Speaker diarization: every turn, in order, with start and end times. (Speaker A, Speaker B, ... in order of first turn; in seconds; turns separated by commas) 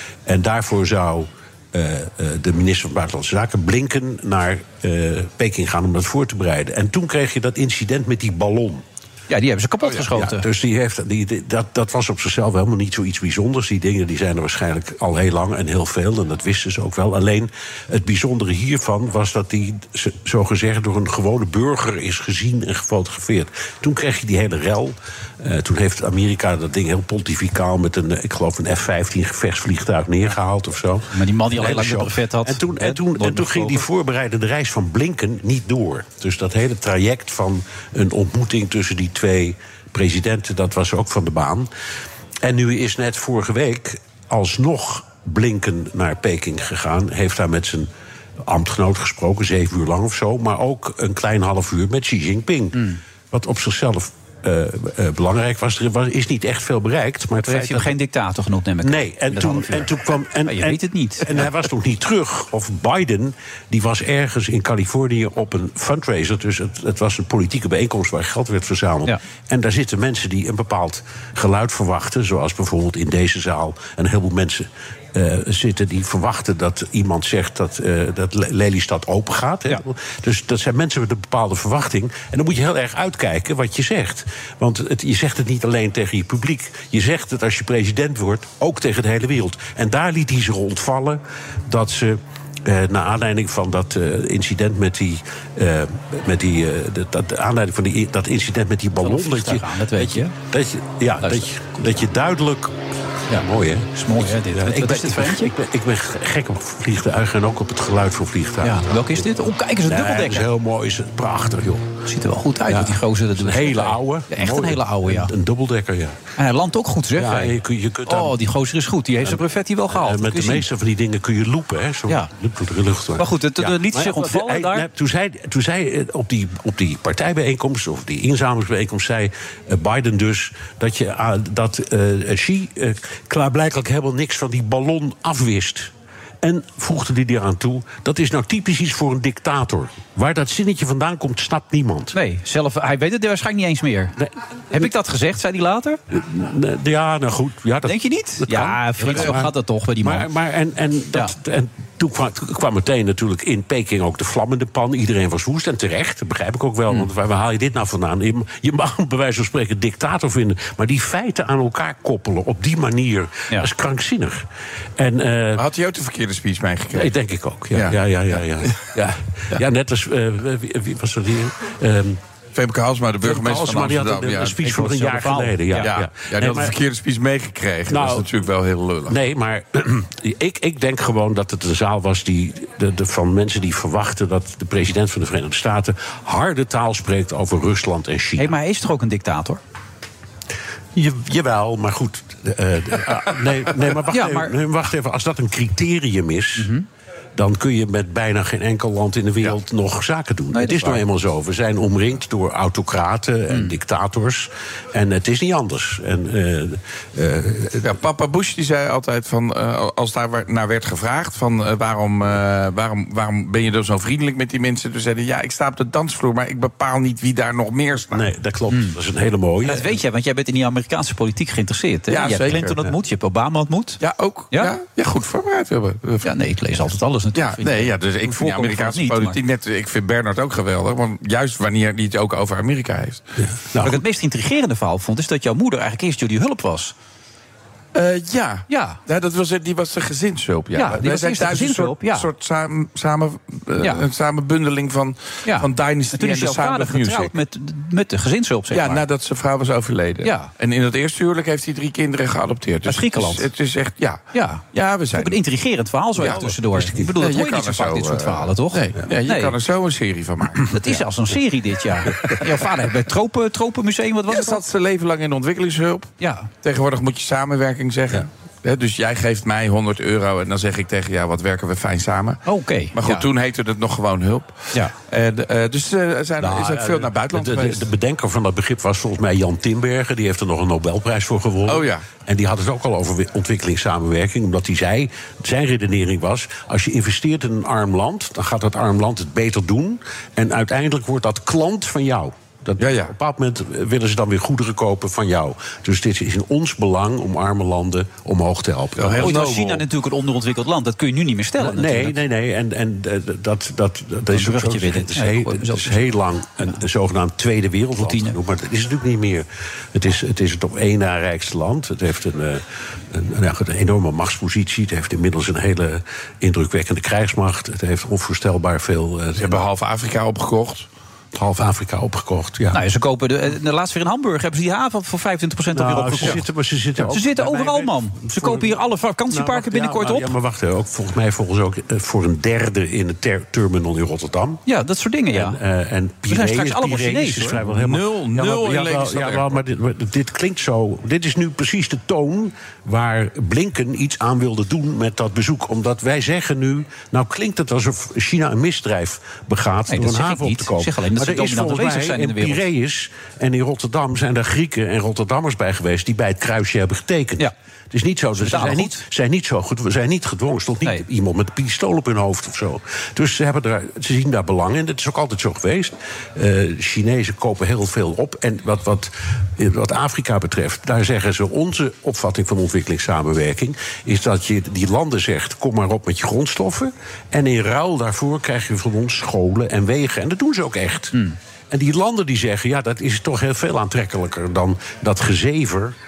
Speaker A: 0.3-8.8, Speaker B: 9.3-10.5, Speaker A: 10.0-41.7, Speaker B: 31.1-33.9, Speaker A: 42.4-47.9, Speaker A: 48.5-58.0, Speaker B: 57.4-59.9, Speaker A: 58.8-102.8, Speaker B: 60.5-61.5, Speaker B: 99.0-100.3, Speaker B: 101.2-101.5, Speaker B: 103.3-105.5, Speaker A: 103.3-109.3, Speaker B: 108.6-110.5, Speaker A: 109.9-111.9, Speaker B: 112.1-115.3, Speaker A: 112.7-116.2, Speaker B: 116.4-120.7, Speaker A: 117.2-118.4, Speaker A: 119.2-135.9, Speaker B: 123.2-124.9, Speaker A: 136.4-142.2, Speaker B: 142.1-144.2, Speaker A: 144.2-144.9, Speaker B: 144.7-146.0, Speaker A: 146.1-164.4, Speaker B: 147.8-150.3, Speaker A: 165.0-165.7, Speaker C: 165.6-167.2, Speaker A: 166.9-172.2, Speaker C: 167.7-168.9, Speaker C: 172.6-175.2, Speaker A: 173.2-176.8, Speaker B: 174.8-175.9, Speaker C: 175.7-179.2, Speaker A: 177.9-178.3, Speaker A: 179.1-188.6, Speaker B: 188.4-189.6, Speaker A: 190.9-196.7, Speaker B: 194.1-194.5, Speaker B: 196.6-196.8, Speaker A: 197.4-207.9, Speaker B: 200.5-201.0, Speaker C: 207.8-218.3, Speaker A: 218.1-220.0, Speaker B: 218.7-219.0, Speaker B: 219.6-224.0, Speaker C: 222.1-222.9, Speaker C: 224.0-226.3, Speaker B: 226.2-229.4, Speaker C: 227.3-233.2, Speaker A: 233.4-234.0, Speaker B: 233.8-236.9, Speaker C: 237.9-247.3, Speaker B: 238.7-239.0, Speaker B: 240.8-242.3, Speaker B: 245.4-249.0, Speaker C: 248.7-254.2, Speaker B: 250.2-250.5, Speaker B: 252.9-253.5, Speaker B: 254.3-254.6, Speaker C: 254.7-255.4, Speaker B: 255.1-259.5, Speaker C: 256.2-256.5, Speaker A: 256.2-257.1, Speaker C: 257.1-260.8, Speaker B: 260.7-264.6, Speaker C: 264.3-266.1, Speaker B: 266.2-266.5, Speaker C: 266.6-272.4, Speaker B: 272.5-273.3, Speaker C: 272.9-277.9, Speaker A: 276.4-299.5, Speaker C: 281.7-282.1, Speaker C: 292.8-293.1, Speaker C: 299.0-299.8, Speaker B: 299.2-302.2, Speaker A: 301.6-319.6, Speaker B: 304.3-306.1, Speaker B: 308.0-308.4, Speaker C: 319.4-320.9, Speaker A: 321.3-322.8, Speaker B: 322.7-326.4, Speaker A: 325.7-334.6, Speaker B: 327.0-330.3, Speaker B: 334.7-335.6, Speaker A: 335.3-381.2, Speaker B: 336.3-337.6, Speaker C: 337.6-339.6, Speaker B: 349.9-352.7, Speaker B: 358.4-359.0, Speaker A: 381.7-385.9